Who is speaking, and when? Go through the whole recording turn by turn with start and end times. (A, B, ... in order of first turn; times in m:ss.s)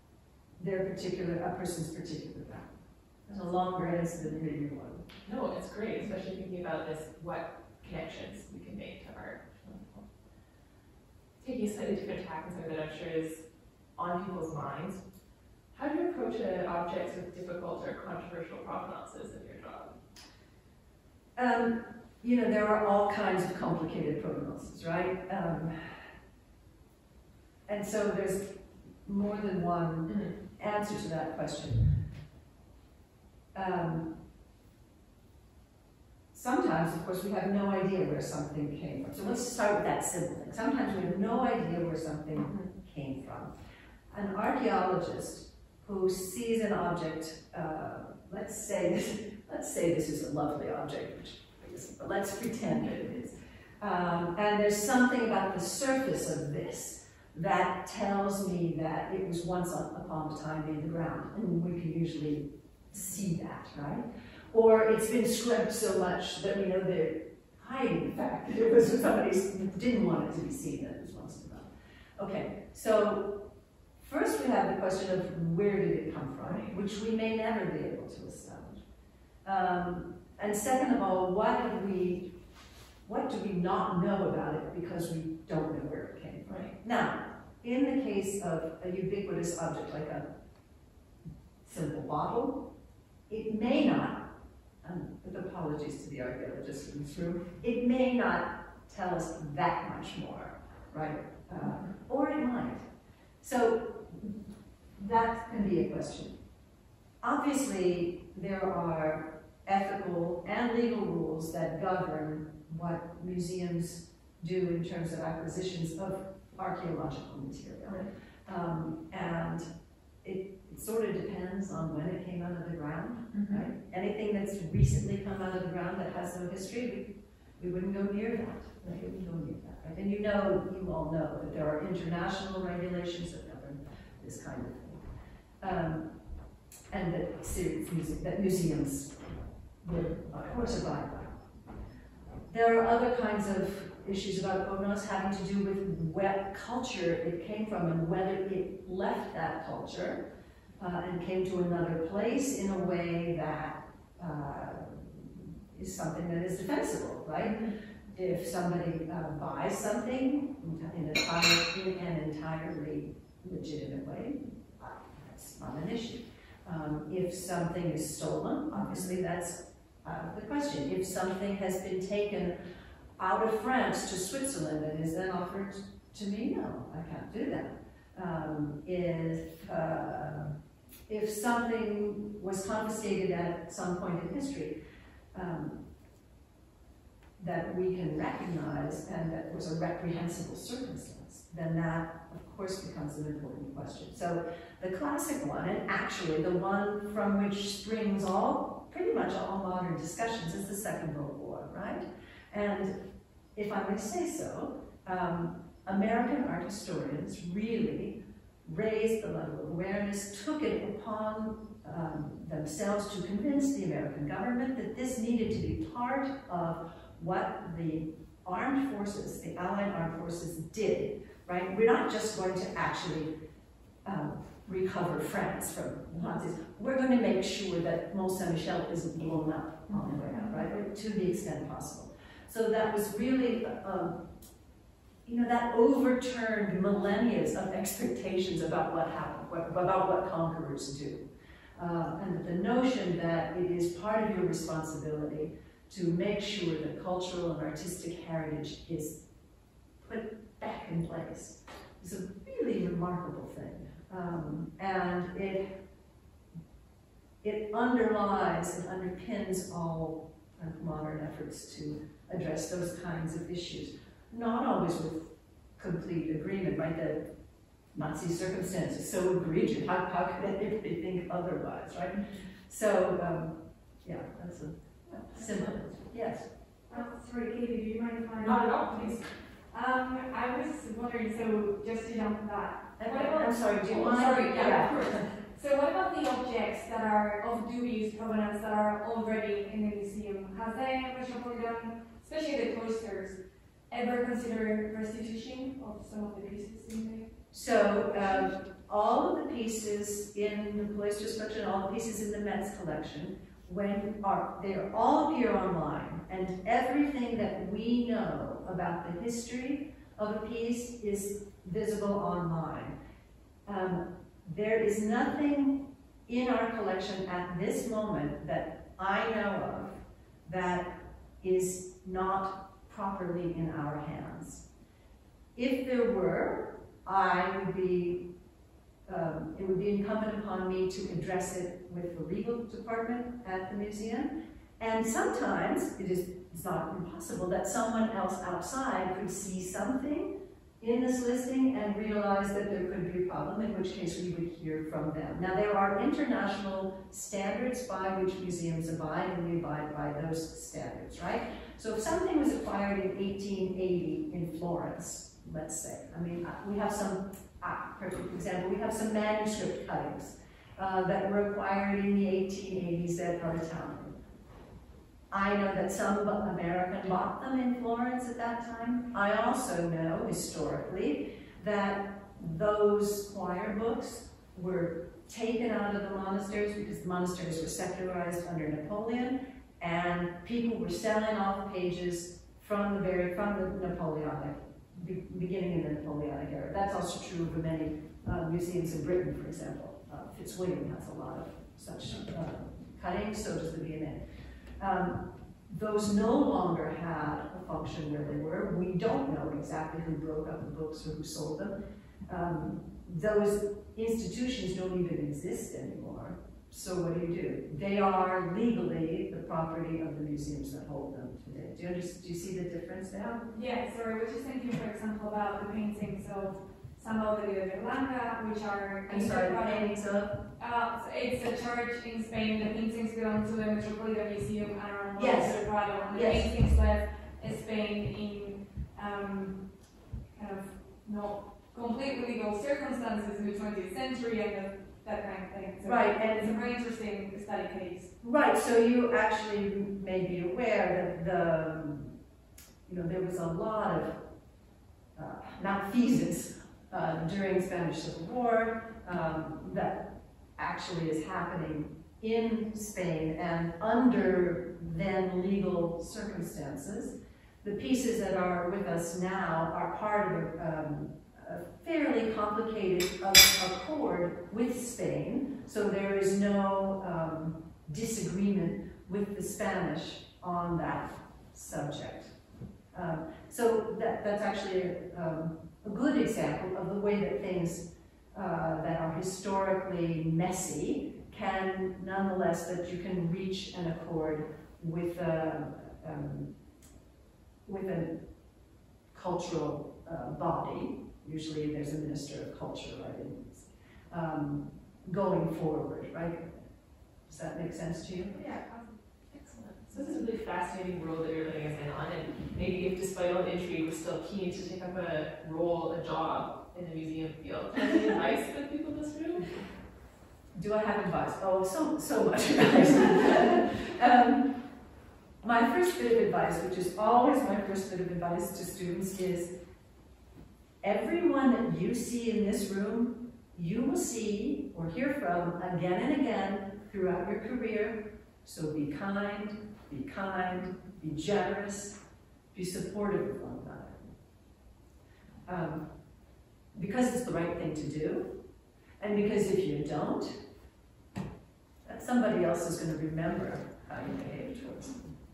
0:00.6-0:02.7 A
0:03.3-0:05.0 A
0:05.2-0:10.0 B
0:11.4-0:13.4 B
0:14.0-0:15.0 B
0:15.7-0:20.0 B
0:21.4-0:26.0 A
0:27.7-0:32.0 A
0:30.1-0:30.3 B
0:33.5-0:34.1 A
0:36.3-0:43.5 A
0:42.4-0:42.7 B
0:44.1-1:13.4 A
1:14.0-1:18.8 A
1:16.4-1:16.7 B
1:19.4-1:22.3 A
1:23.0-1:30.2 A
1:26.4-1:26.7 B
1:31.6-1:32.6 A
1:33.3-1:34.2 A
1:34.8-1:42.8 A
1:43.4-1:44.3 A
1:45.0-1:46.4 A
1:47.2-1:59.7 A
2:00.2-2:15.0 A
2:03.3-2:03.6 B
2:15.6-2:16.1 A
2:16.9-2:19.2 A
2:19.8-2:21.4 A
2:22.5-2:30.2 A
2:30.8-2:37.6 A
2:37.4-2:37.7 B
2:38.1-2:52.5 A
2:48.7-2:49.2 B
2:53.2-3:00.5 A
3:01.1-3:04.8 A
3:05.3-3:05.8 A
3:07.4-3:23.0 A
3:23.6-3:43.3 A
3:44.0-3:54.2 A
3:49.9-3:50.6 B
3:55.2-4:09.2 A
4:10.0-4:15.7 A
4:17.4-4:27.2 A
4:27.9-4:36.5 A
4:35.1-4:36.0 B
4:36.9-4:53.4 C
4:38.4-4:39.2 B
4:43.0-4:45.2 A
4:53.9-4:57.3 C
4:57.5-5:12.9 A
5:13.6-5:24.6 A
5:25.6-5:28.2 A
5:29.1-6:04.2 A
6:05.3-6:34.2 A
6:34.8-6:41.7 A
6:42.3-6:53.4 A
6:53.2-7:00.0 C
6:59.1-7:00.4 A
7:00.6-7:09.6 C
7:05.2-7:06.5 A
7:10.3-7:18.1 C
7:15.8-7:16.6 A
7:18.2-7:22.1 A
7:22.8-7:24.2 A
7:25.2-7:52.3 A
7:52.9-8:06.5 A
8:07.6-8:08.2 A
8:09.1-8:16.6 A
8:17.3-8:18.4 A
8:18.3-8:29.6 B
8:30.5-8:34.6 A
8:35.4-8:39.5 A
8:40.8-8:52.0 A
8:52.5-8:54.1 A
8:55.4-8:55.8 A
8:56.7-8:58.3 A
8:59.0-9:00.4 A
9:01.8-9:05.0 A